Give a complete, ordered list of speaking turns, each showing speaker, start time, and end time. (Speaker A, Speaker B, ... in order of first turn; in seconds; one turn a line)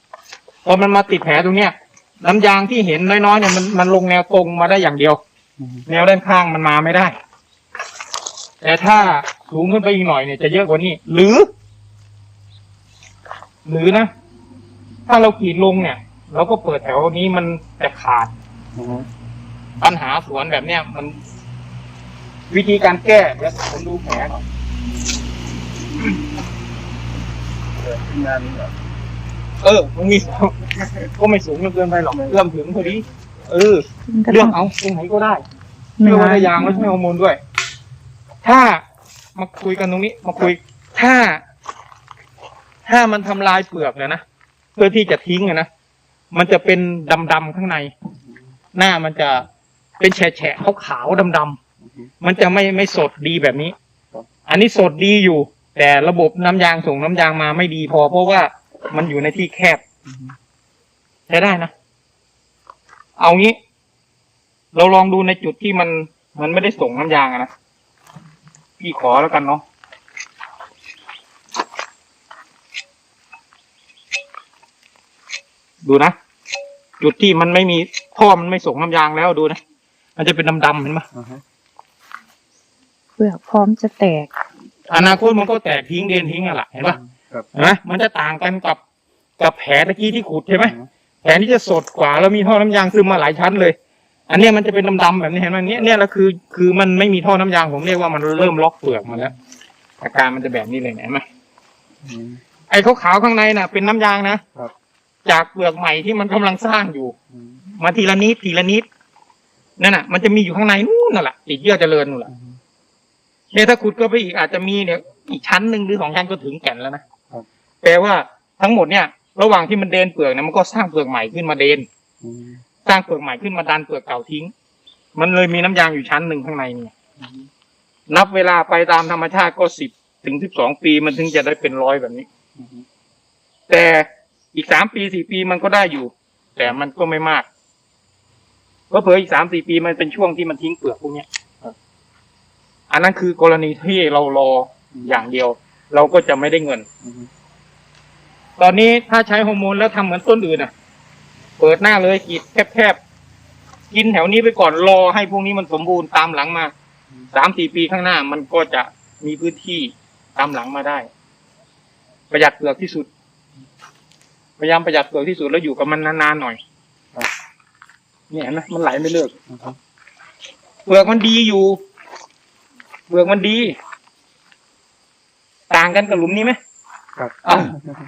Speaker A: 0.6-5.2
Speaker A: 5.8-7.2
Speaker A: 8.6-11.5
Speaker A: 13.6-14.1
Speaker A: 15.1-18.3
Speaker B: 18.8-19.1
Speaker A: 19.8-21.2
Speaker A: 22.5-24.4
Speaker B: 27.9-28.7
Speaker A: 29.6-35.4
Speaker C: 34.1-34.5
Speaker C: 36.0-36.9
Speaker A: 36.0-37.4
Speaker A: 38.4-38.8
Speaker A: 39.4-41.4
Speaker A: 42.9-44.2
Speaker A: 44.8-45.7
Speaker A: 46.3-47.9
Speaker A: 48.7-49.5
Speaker A: 50.0-51.6
Speaker A: 52.2-53.7
Speaker A: 54.5-59.8
Speaker A: 61.3-61.7
Speaker A: 63.2-63.6
Speaker A: 64.7-67.5
Speaker A: 68.8-69.6
Speaker A: 75.8-76.2
Speaker A: 77.0-79.6
Speaker A: 80.2-81.0
Speaker B: 81.1-81.4
Speaker C: 83.2-84.3
Speaker A: 84.9-87.0
Speaker B: 87.2-87.5
Speaker A: 87.5-88.8
Speaker A: 89.4-93.8
Speaker A: 94.3-99.3
Speaker A: 100.0-101.2
Speaker B: 102.0-102.4
Speaker A: 102.7-104.4
Speaker A: 105.2-107.1
Speaker B: 107.3-107.6
Speaker A: 107.8-108.8
Speaker A: 109.8-112.3
Speaker B: 112.3-112.6
Speaker A: 113.5-117.0
Speaker A: 117.8-121.8
Speaker B: 122.2-122.6
Speaker A: 122.8-124.5
Speaker A: 125.1-126.9
Speaker A: 128.1-132.3
Speaker A: 133.7-137.4
Speaker A: 138.9-141.3
Speaker A: 142.9-146.9
Speaker B: 147.0-147.3
Speaker A: 148.6-150.7
Speaker A: 151.6-153.0
Speaker A: 153.9-156.7
Speaker A: 157.3-161.1
Speaker A: 162.3-163.1
Speaker A: 164.6-166.6
Speaker A: 168.3-169.3
Speaker B: 169.5-169.8
Speaker A: 170.8-171.8
Speaker A: 173.1-173.8
Speaker A: 175.7-176.6
Speaker B: 177.2-177.9
Speaker A: 177.4-177.7